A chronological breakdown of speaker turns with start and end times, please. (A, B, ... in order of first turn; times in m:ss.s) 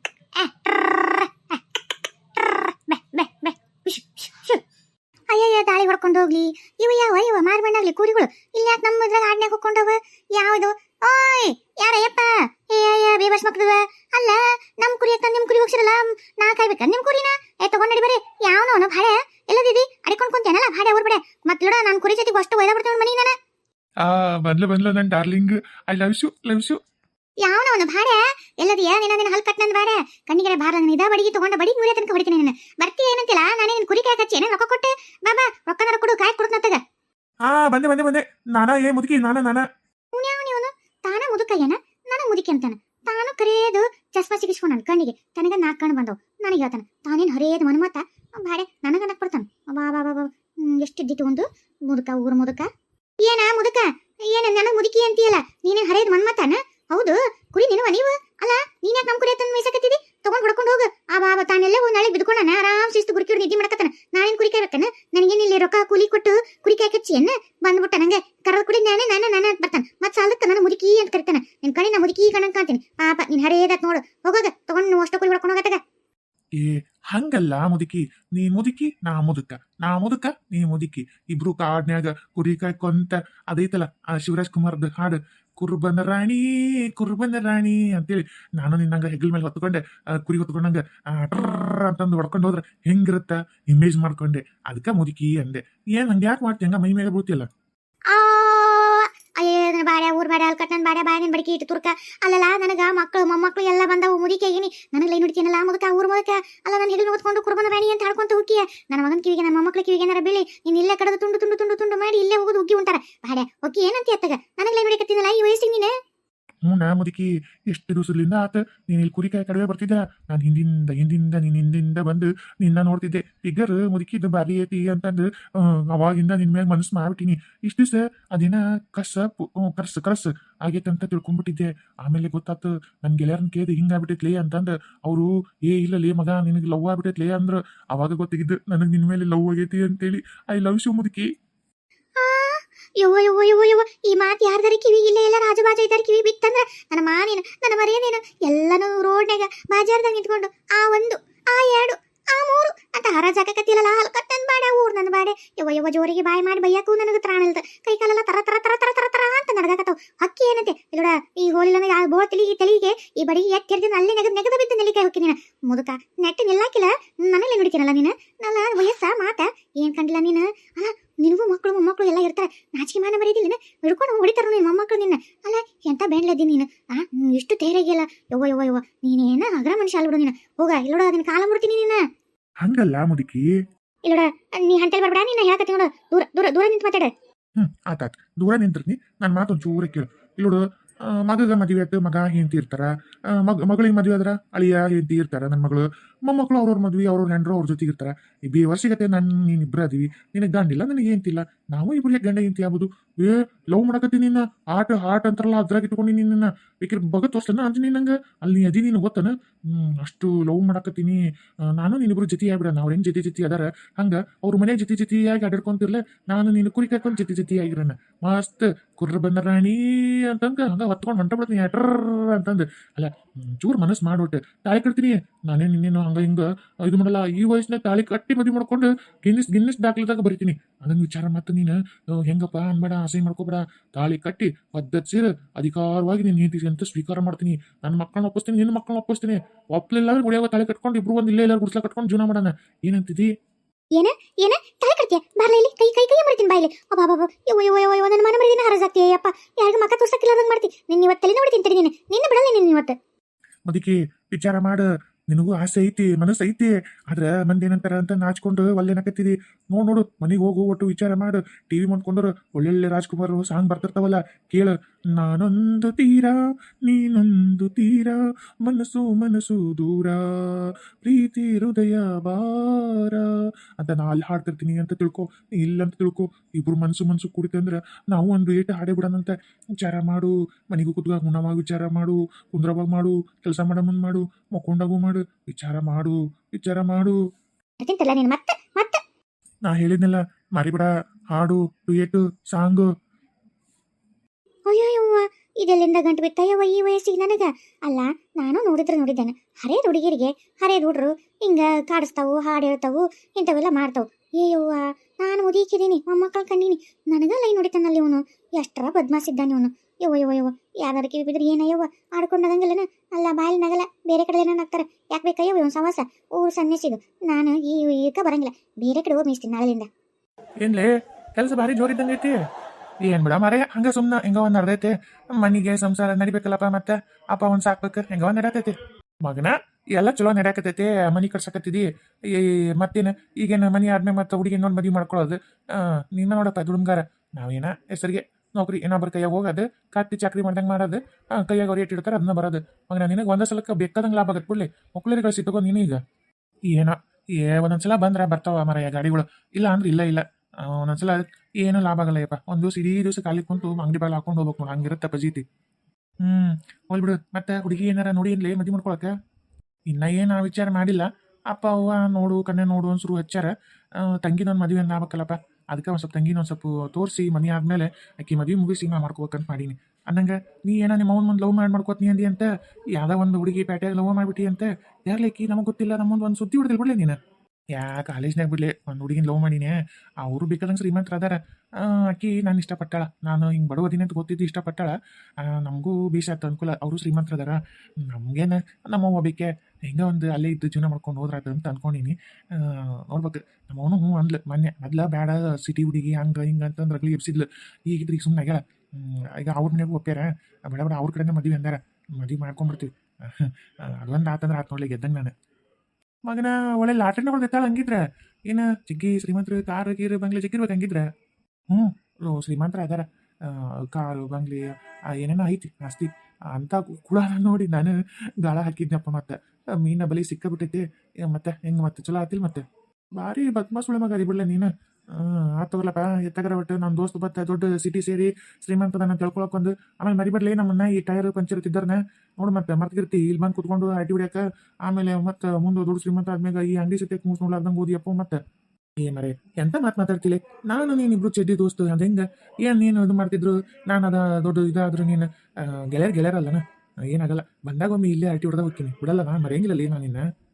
0:00.4-0:01.8 A
0:02.3-0:04.6 A
0:05.3-0:23.3 A
0:24.0-0:26.8 B
0:27.4-0:36.8 A
0:37.5-0:39.6 B
0:40.1-0:52.7 A
0:53.2-1:15.8 A
1:16.6-1:37.5 B
1:38.1-1:55.9 A
1:56.6-2:21.3 B
2:22.2-3:02.0 A
3:02.6-3:03.4 B
3:04.0-3:07.1 A
3:07.6-3:31.2 B
3:31.7-4:03.3 B
4:04.0-4:13.0 A
4:13.7-4:47.2 B
4:47.8-4:49.0 A
4:49.6-4:52.9 B
4:54.7-5:19.9 A
5:20.6-5:22.4 B
5:23.0-5:46.0 B
5:46.7-5:55.4 B
5:56.2-5:59.1 B
5:59.9-6:17.2 B
6:17.7-6:45.3 B
6:46.3-6:51.0 B
6:51.7-7:02.6 B
7:03.2-7:18.4 B
7:19.0-7:30.2 B